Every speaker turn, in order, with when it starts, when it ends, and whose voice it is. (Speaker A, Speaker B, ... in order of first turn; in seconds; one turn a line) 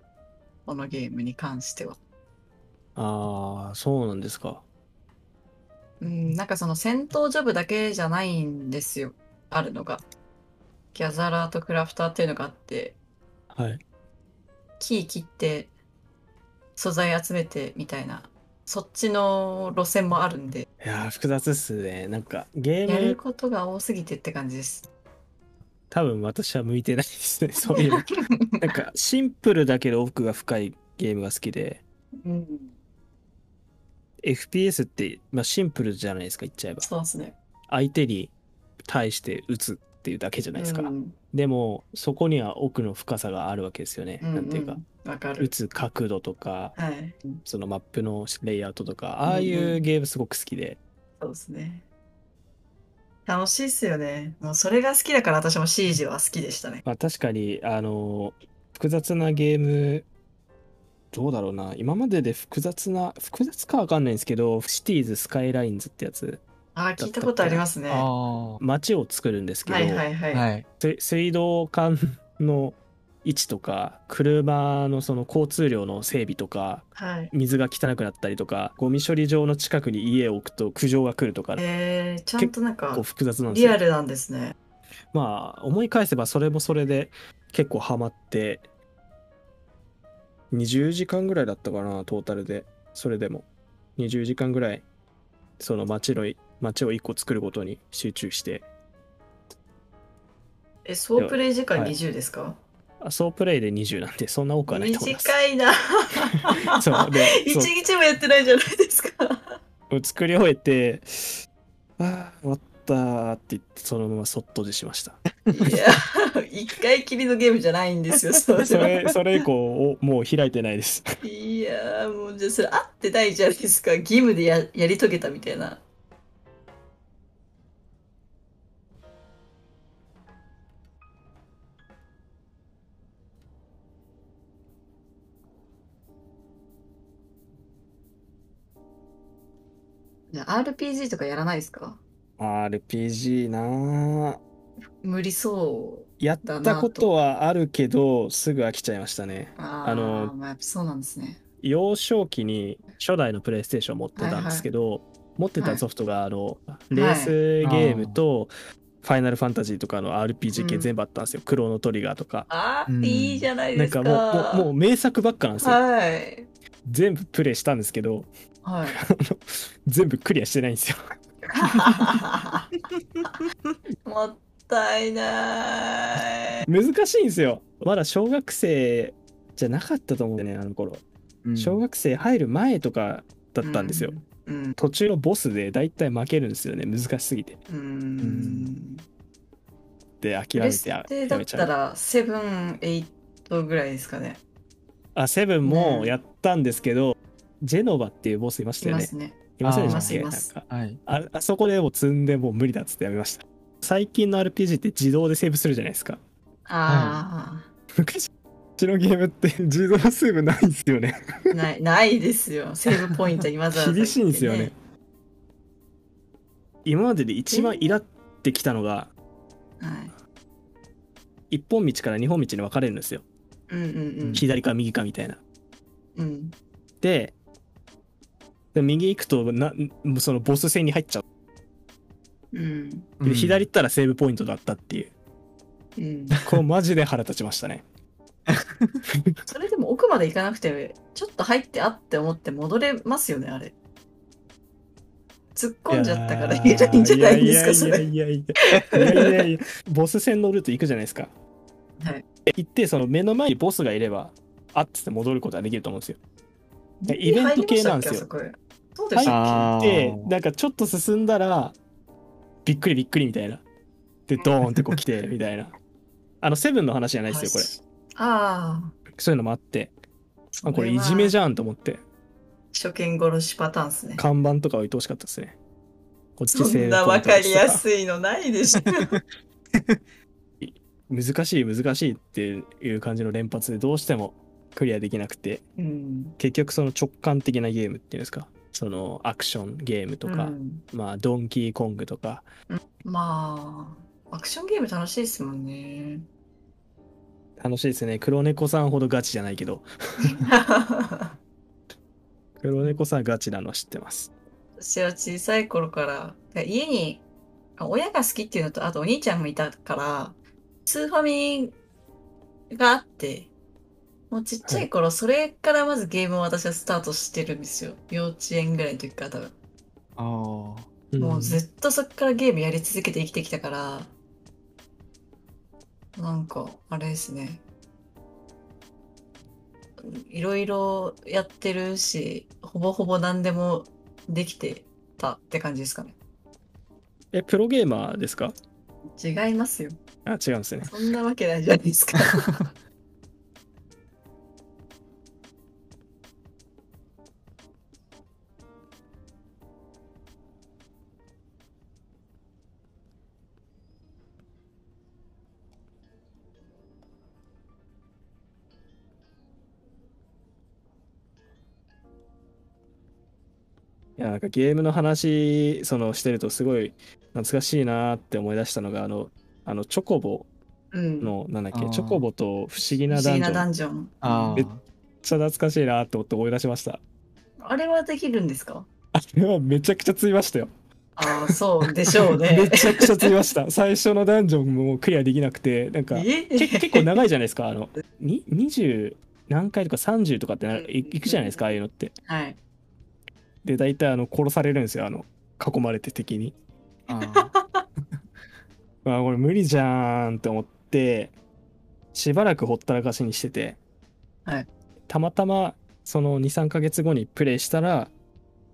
Speaker A: 0.7-2.0
Speaker B: 3.0-4.6
Speaker A: 6.0-10.0
Speaker A: 10.9-13.0
Speaker B: 13.5-13.8
Speaker A: 14.8-15.7
Speaker A: 16.8-20.7
Speaker B: 20.8-23.2
Speaker A: 22.9-24.9
Speaker B: 25.9-31.8
Speaker A: 27.6-28.6
Speaker A: 32.2-32.7
Speaker B: 34.2-36.9
Speaker A: 36.8-37.4
Speaker B: 37.7-38.3
Speaker B: 38.9-44.8
Speaker A: 40.6-41.2
Speaker A: 44.2-45.5
Speaker B: 45.4-46.8
Speaker A: 46.8-47.4
Speaker B: 47.5-50.8
Speaker A: 49.3-49.8
Speaker A: 51.2-51.9
Speaker A: 53.3-56.8
Speaker B: 56.9-60.1
Speaker B: 61.1-66.4
Speaker A: 66.8-68.1
Speaker B: 67.0-67.7
Speaker C: 67.9-68.6
Speaker B: 68.6-70.1
Speaker A: 69.7-70.5
Speaker C: 70.3-70.7
Speaker B: 70.8-81.6
Speaker A: 77.0-77.3
Speaker A: 81.6-84.5
Speaker B: 82.4-83.8
Speaker B: 85.1-88.7
Speaker B: 90.5-94.8
Speaker B: 95.6-98.7
Speaker A: 100.8-102.6
Speaker B: 101.2-102.0
Speaker B: 103.0-105.4
Speaker A: 104.7-109.6
Speaker B: 106.7-107.7
Speaker B: 109.9-111.4
Speaker B: 112.0-115.2
Speaker A: 115.5-118.9
Speaker B: 118.6-121.0
Speaker A: 121.2-125.8
Speaker A: 140.3-142.0
Speaker B: 142.4-144.4
Speaker A: 145.0-147.1
Speaker B: 146.2-150.3
Speaker A: 149.6-151.4
Speaker B: 151.6-158.5
Speaker A: 154.2-154.7
Speaker A: 155.6-155.8
Speaker A: 156.9-157.3
Speaker C: 157.6-158.2
Speaker B: 159.0-162.5
Speaker A: 160.5-160.9
Speaker A: 162.5-164.7
Speaker C: 162.9-163.5
Speaker B: 163.8-165.8
Speaker A: 165.6-166.5
Speaker B: 166.9-168.3
Speaker A: 168.6-169.0
Speaker B: 168.9-171.0
Speaker A: 171.6-172.7
Speaker A: 174.1-176.7
Speaker B: 176.7-181.0
Speaker C: 181.4-181.8
Speaker B: 181.6-184.2
Speaker A: 183.6-184.8
Speaker B: 184.8-187.6
Speaker A: 187.7-189.0
Speaker C: 188.2-188.7
Speaker B: 190.2-191.7
Speaker A: 190.6-194.4
Speaker B: 195.2-206.2
Speaker A: 195.6-196.1
Speaker A: 198.8-200.5
Speaker C: 199.6-201.0
Speaker A: 206.7-207.7
Speaker C: 206.9-207.2
Speaker B: 208.0-211.5
Speaker A: 211.5-214.7
Speaker B: 213.7-214.7
Speaker B: 216.8-219.1
Speaker A: 217.5-218.0
Speaker A: 219.8-220.1
Speaker B: 221.5-223.2
Speaker A: 223.7-224.4
Speaker B: 224.3-225.4
Speaker A: 226.2-226.6
Speaker B: 227.0-227.3
Speaker B: 228.7-231.2
Speaker A: 232.5-233.1
Speaker C: 233.2-233.7
Speaker B: 233.2-235.1
Speaker A: 236.0-236.4
Speaker B: 236.4-237.8
Speaker A: 239.5-243.7
Speaker A: 245.6-248.1
Speaker B: 245.9-251.3
Speaker A: 248.8-249.3
Speaker A: 252.0-252.2
Speaker B: 252.5-256.2
Speaker A: 257.0-259.7
Speaker B: 257.1-258.3
Speaker B: 259.1-261.8
Speaker C: 259.2-260.3
Speaker B: 262.6-263.6
Speaker B: 264.3-265.7
Speaker B: 266.4-267.7
Speaker A: 267.3-268.9
Speaker B: 269.1-269.9
Speaker A: 270.6-271.4
Speaker B: 270.7-272.0
Speaker A: 272.7-274.2
Speaker B: 274.2-275.6
Speaker B: 276.4-277.8
Speaker A: 276.5-279.2
Speaker B: 280.6-285.6
Speaker A: 285.8-286.4
Speaker B: 286.4-292.5
Speaker A: 290.2-290.8
Speaker A: 292.7-296.2
Speaker B: 297.6-300.4
Speaker A: 300.2-301.4
Speaker B: 302.6-304.3
Speaker A: 304.8-307.2
Speaker A: 307.8-311.8
Speaker A: 312.7-313.5
Speaker A: 314.3-319.5
Speaker C: 320.2-320.9
Speaker B: 321.1-321.6
Speaker A: 321.2-324.1
Speaker A: 326.2-327.6
Speaker A: 330.0-336.2
Speaker B: 337.3-338.6
Speaker A: 339.2-340.0
Speaker B: 340.2-340.9
Speaker A: 340.9-342.6
Speaker B: 364.2-370.5
Speaker A: 370.9-371.3
Speaker B: 371.2-373.6
Speaker C: 371.7-372.3
Speaker A: 373.1-374.7
Speaker C: 374.2-374.8
Speaker B: 375.2-377.0
Speaker A: 377.6-378.9
Speaker B: 379.1-380.7
Speaker A: 381.2-383.3
Speaker B: 381.3-381.5
Speaker B: 382.3-392.1
Speaker A: 386.1-387.1
Speaker A: 390.7-391.6
Speaker A: 392.3-392.6
Speaker B: 393.6-396.6
Speaker C: 397.1-397.5
Speaker A: 397.1-397.8
Speaker B: 399.1-401.3
Speaker B: 402.1-403.8
Speaker B: 405.1-408.1